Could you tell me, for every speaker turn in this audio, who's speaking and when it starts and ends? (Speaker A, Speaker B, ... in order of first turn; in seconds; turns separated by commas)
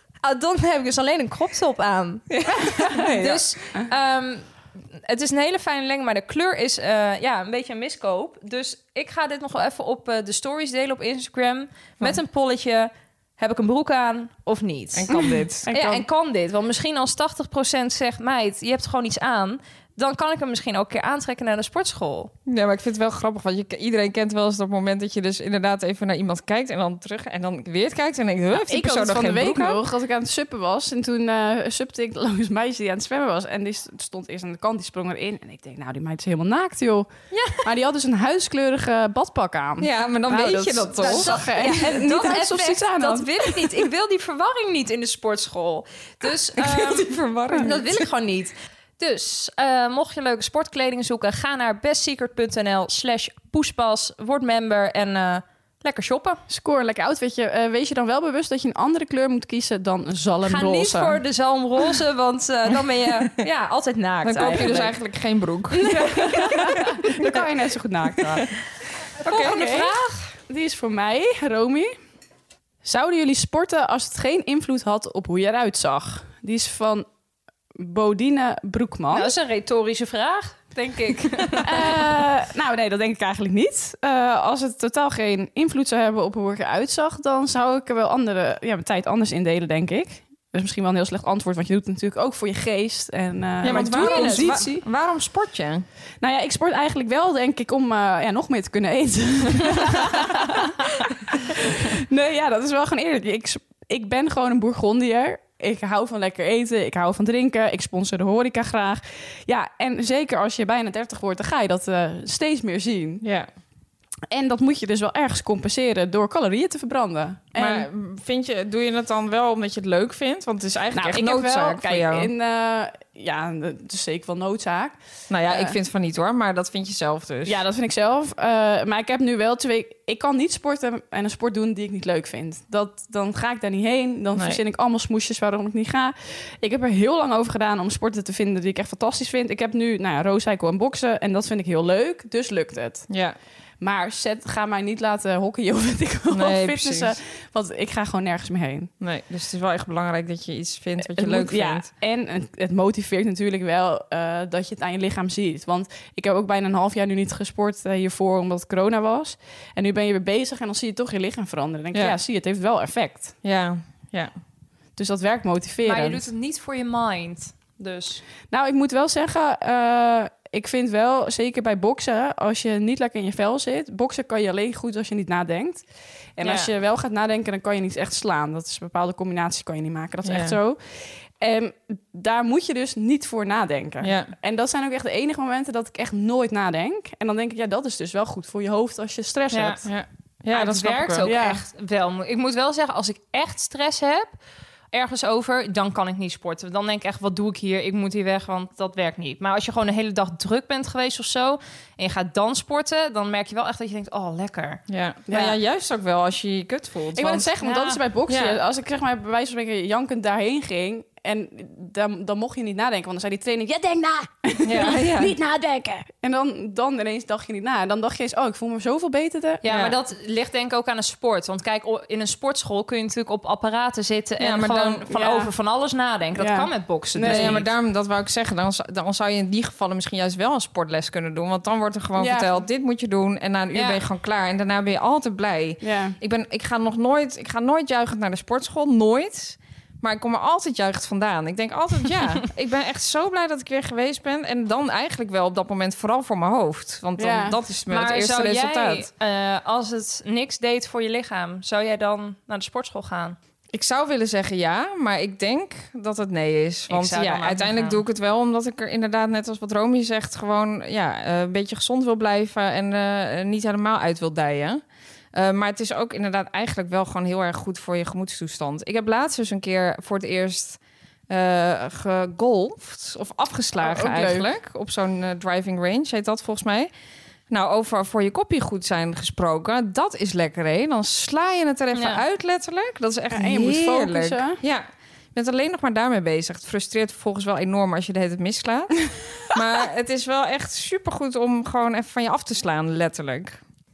Speaker A: 0.2-2.3, Speaker B: 2.3-3.4, Speaker A: 3.2-22.3, Speaker B: 14.9-15.7, Speaker C: 15.2-16.0, Speaker B: 22.4-29.8, Speaker C: 28.5-37.1, Speaker A: 37.3-37.6, Speaker C: 37.6-43.7, Speaker B: 39.8-41.3, Speaker A: 41.0-56.4, Speaker B: 46.6-48.0, Speaker C: 56.5-61.2, Speaker A: 60.4-64.9, Speaker B: 64.2-66.0, Speaker A: 65.7-67.0, Speaker C: 65.9-68.5, Speaker B: 69.2-69.8, Speaker A: 69.2-70.3, Speaker C: 69.4-69.9, Speaker C: 70.5-71.9, Speaker C: 72.8-77.0, Speaker C: 77.8-79.3, Speaker A: 79.1-81.9, Speaker C: 81.6-94.8, Speaker B: 93.6-95.8, Speaker A: 93.7-94.8, Speaker C: 96.2-113.2, Speaker B: 113.2-113.5, Speaker C: 114.3-117.9, Speaker B: 117.5-122.3, Speaker C: 120.9-125.0, Speaker B: 125.3-127.6, Speaker C: 125.5-125.7, Speaker C: 127.5-143.1, Speaker B: 134.3-134.6, Speaker B: 143.1-143.3, Speaker C: 143.8-148.9, Speaker B: 146.3-147.1, Speaker B: 149.0-151.9, Speaker C: 151.1-163.3, Speaker B: 163.4-164.3, Speaker C: 165.0-166.2, Speaker A: 165.8-168.2, Speaker C: 168.5-175.8, Speaker C: 176.4-189.9, Speaker B: 176.4-176.7, Speaker B: 180.2-180.6, Speaker B: 184.0-184.3, Speaker A: 189.5-189.8, Speaker B: 189.8-191.3, Speaker A: 190.5-194.3, Speaker C: 191.2-191.6, Speaker A: 194.9-204.8, Speaker B: 204.9-207.5, Speaker C: 205.3-205.6, Speaker C: 207.1-219.6, Speaker A: 207.6-208.0, Speaker B: 208.3-208.6, Speaker B: 214.6-215.3, Speaker A: 219.6-227.7, Speaker B: 219.6-219.9, Speaker B: 224.4-225.0, Speaker C: 225.1-225.5, Speaker C: 226.4-227.6, Speaker B: 227.2-249.1, Speaker C: 232.2-232.6, Speaker A: 233.7-234.0, Speaker C: 235.8-236.2, Speaker C: 247.2-247.6, Speaker A: 247.9-253.4, Speaker B: 253.7-264.8, Speaker A: 256.9-258.0, Speaker B: 265.3-276.9, Speaker C: 273.8-274.5, Speaker B: 277.5-293.6, Speaker A: 281.9-282.2, Speaker C: 283.3-284.6